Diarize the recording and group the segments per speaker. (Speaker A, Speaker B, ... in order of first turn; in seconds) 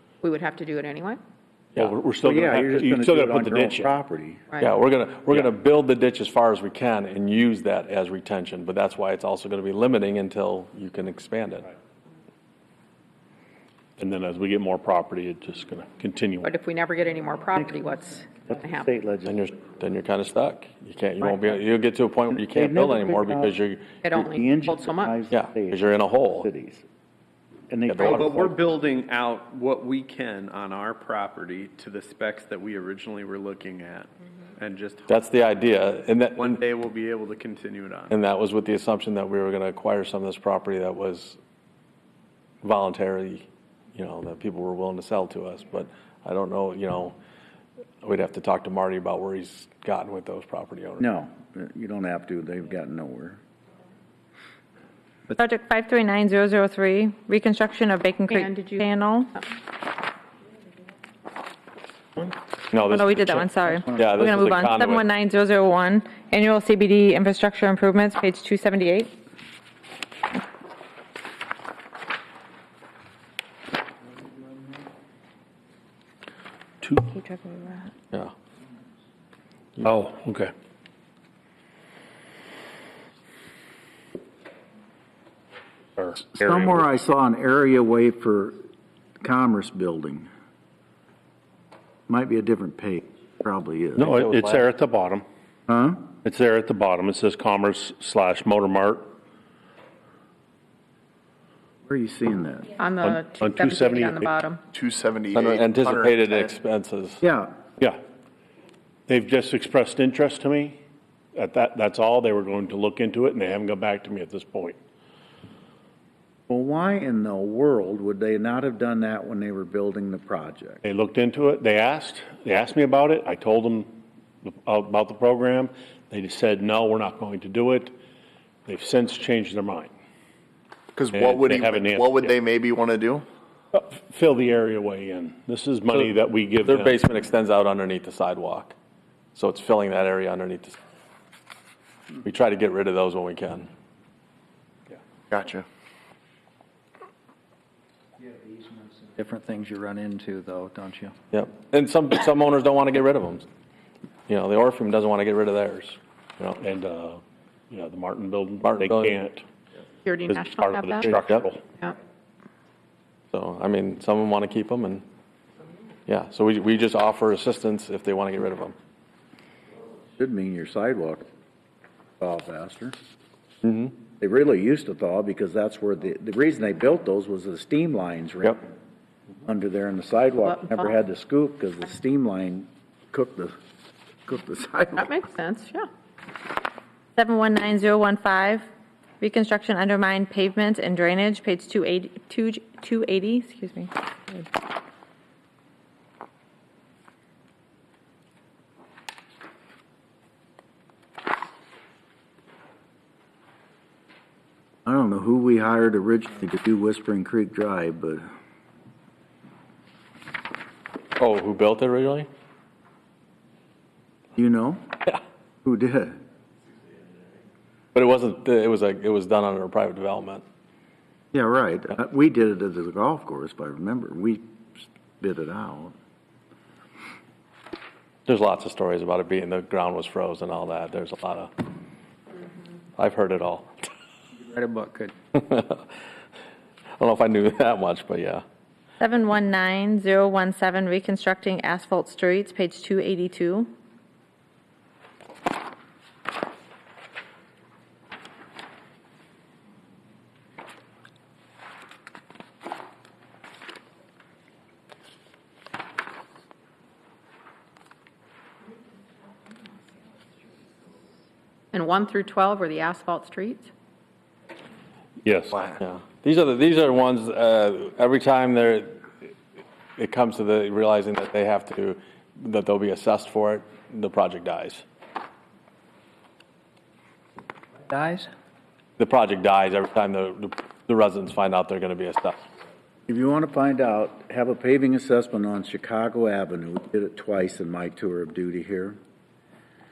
Speaker A: 0.2-1.2, 16.4-18.9, 24.0-25.2, 58.3-58.9, 102.8-104.6, 160.0-161.1, 180.4-180.9, 184.9-185.9, 261.7-263.7
Speaker B: 1.7-3.9, 14.0-16.5, 79.8-80.5, 86.0-86.8, 94.0-95.2, 96.2-99.1, 103.0-104.3, 109.1-110.8, 111.3-114.8, 120.8-127.9, 128.7-129.9, 131.1-132.4, 133.7-137.0, 156.6-159.4, 160.3-161.6, 265.2-265.7
Speaker C: 2.2-4.4, 18.3-19.4, 22.3-23.5, 24.1-26.8, 27.7-28.6, 51.0-53.4, 86.2-88.6, 89.2-90.3, 92.1-94.1, 95.7-96.0, 101.8-102.7, 107.2-107.5, 116.5-120.8, 170.2-171.2, 172.2-172.9, 174.2-178.7, 179.4-183.6, 184.2-185.1, 204.8-208.2, 214.3-215.1, 215.6-216.2, 221.3-225.9, 283.1-289.0
Speaker D: 4.6-11.7, 19.2-24.0, 25.3-26.5, 27.9-28.3, 35.1-36.6, 38.1-41.4, 42.6-47.1, 48.0-51.0, 62.7-65.1, 94.0-94.6, 105.3-107.2, 136.6-138.7, 139.3-140.8, 142.2-143.7, 151.3-153.4, 154.3-156.6, 158.6-159.2, 163.3-165.0, 166.1-168.7, 173.6-173.9, 211.2-212.3, 217.9-220.4, 228.3-231.5, 233.0-233.7, 235.3-235.9, 237.0-238.4, 265.7-269.1, 270.0-274.8, 279.0-282.4
Speaker E: 28.0-35.2, 36.3-38.1
Speaker F: 55.4-59.3, 62.9-69.1, 77.0-77.9, 187.2-188.7, 189.2-194.4, 239.0-243.7
Speaker G: 104.7-106.5, 130.9-133.2, 145.3-145.6
Speaker H: 148.3-151.1, 234.4-235.1, 277.9-278.3